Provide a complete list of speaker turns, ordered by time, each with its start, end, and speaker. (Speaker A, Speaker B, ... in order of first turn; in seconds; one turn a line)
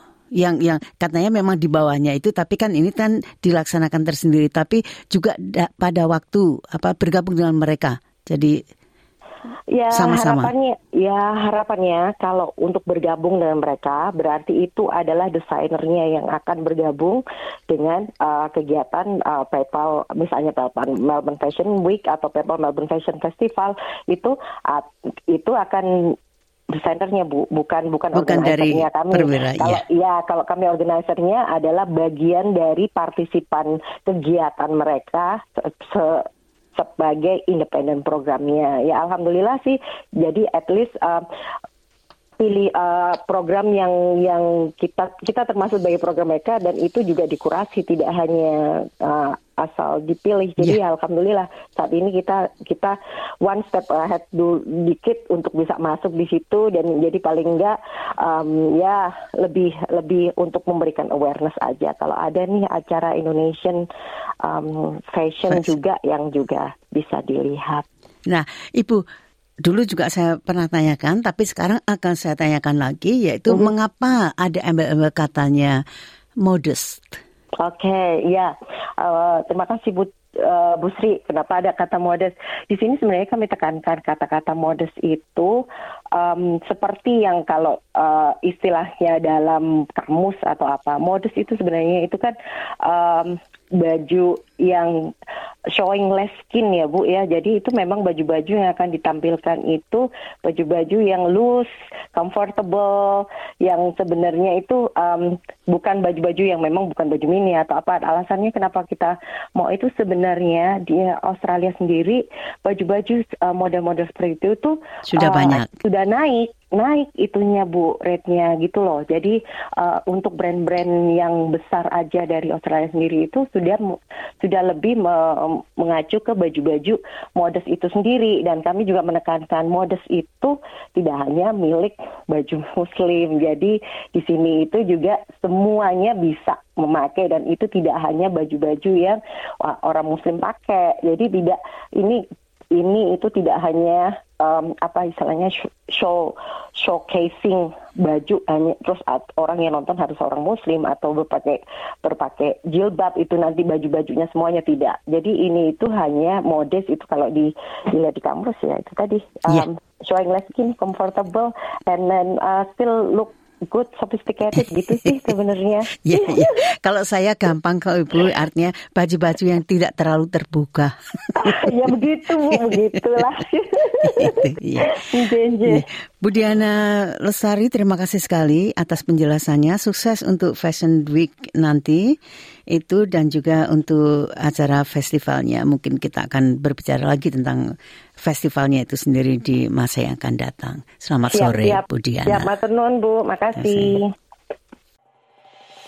Speaker A: 0.4-8.6
Speaker B: 9.7-26.1
Speaker A: 9.9-10.5
Speaker B: 26.7-41.2
Speaker A: 28.1-29.8
Speaker B: 42.4-63.9
Speaker B: 64.4-67.8
Speaker A: 68.3-69.0
Speaker A: 69.6-75.8
Speaker A: 76.4-77.2
Speaker B: 77.6-85.6
Speaker B: 86.1-95.1
Speaker B: 95.7-142.2
Speaker A: 115.1-115.7
Speaker B: 142.7-166.5
Speaker A: 166.0-171.7
Speaker B: 171.3-175.8
Speaker A: 174.1-175.0
Speaker A: 175.7-182.0
Speaker A: 182.7-187.6
Speaker A: 188.2-192.5
Speaker B: 191.3-194.1
Speaker A: 193.6-194.0